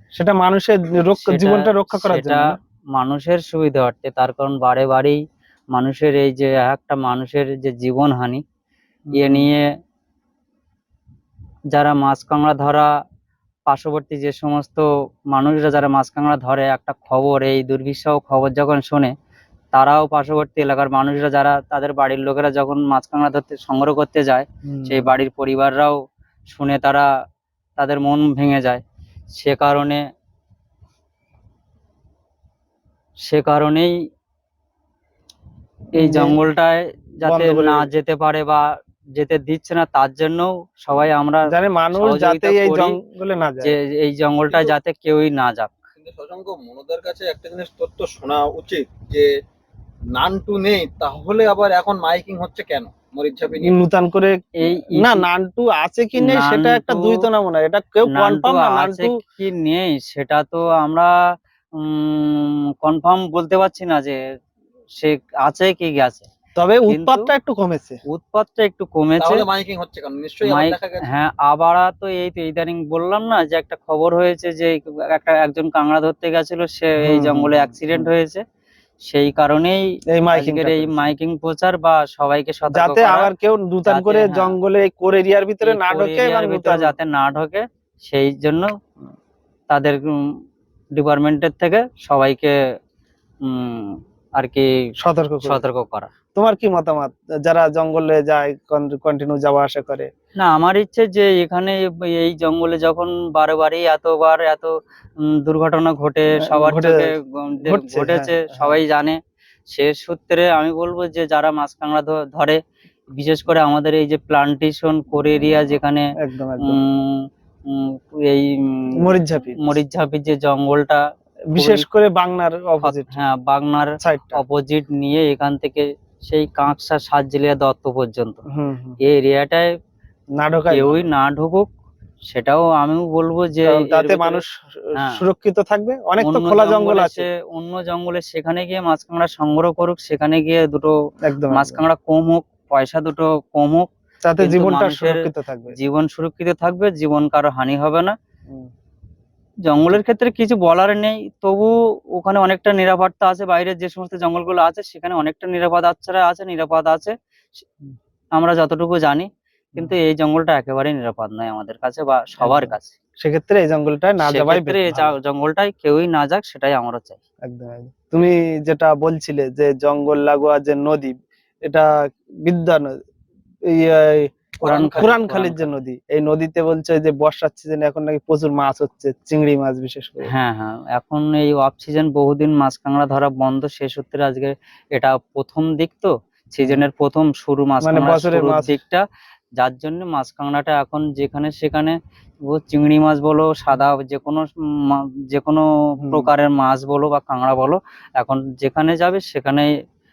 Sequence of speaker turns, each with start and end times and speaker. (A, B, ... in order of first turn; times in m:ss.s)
0:00.2-0:02.6 A
0:01.1-0:05.2 B
0:05.7-0:08.4 B
0:09.1-0:09.5 A
0:09.1-0:09.7 B
0:11.7-0:12.9 B
0:13.7-0:19.1 B
0:19.7-0:27.1 B
0:24.7-0:25.1 A
0:27.8-0:30.1 B
0:33.2-0:34.0 B
0:36.0-0:43.0 B
0:36.0-0:36.4 A
0:37.2-0:37.9 A
0:41.5-0:43.8 A
0:43.6-0:45.8 B
0:46.0-0:49.3 C
0:50.1-0:53.8 C
0:53.6-0:59.2 A
0:54.6-0:55.3 B
0:56.2-0:57.2 B
0:58.1-1:04.2 B
1:05.0-1:06.3 B
1:06.6-1:08.0 A
1:06.9-1:07.3 B
1:08.1-1:09.5 B
1:09.2-1:11.1 C
1:10.4-1:18.4 B
1:17.0-1:18.1 A
1:19.0-1:23.3 B
1:20.1-1:21.1 A
1:22.7-1:27.0 A
1:23.9-1:24.6 B
1:25.6-1:28.8 B
1:29.7-1:32.8 B
1:33.4-1:34.9 B
1:35.0-1:35.6 A
1:35.4-1:36.1 B
1:36.3-1:40.1 A
1:40.4-1:52.6 B
1:46.4-1:48.8 A
1:53.1-2:01.0 B
1:56.2-1:56.8 A
1:59.0-1:59.8 A
2:01.5-2:03.2 A
2:01.6-2:01.8 B
2:02.8-2:08.4 B
2:04.0-2:04.4 A
2:08.5-2:09.0 A
2:09.0-2:09.8 B
2:10.4-2:11.0 A
2:10.7-2:11.7 B
2:12.3-2:14.4 B
2:13.6-2:17.3 A
2:15.0-2:15.2 B
2:16.2-2:21.0 B
2:21.2-2:21.8 A
2:21.5-2:28.2 B
2:24.2-2:25.8 A
2:29.6-2:37.6 B
2:38.3-2:43.0 B
2:42.4-2:45.1 A
2:44.2-2:47.2 B
2:47.4-2:51.9 A
2:52.4-2:53.0 A
2:53.7-3:00.3 A
2:54.6-2:55.7 B
3:00.3-3:09.0 B
3:07.8-3:08.8 A
3:09.6-3:19.7 B
3:16.0-3:16.3 A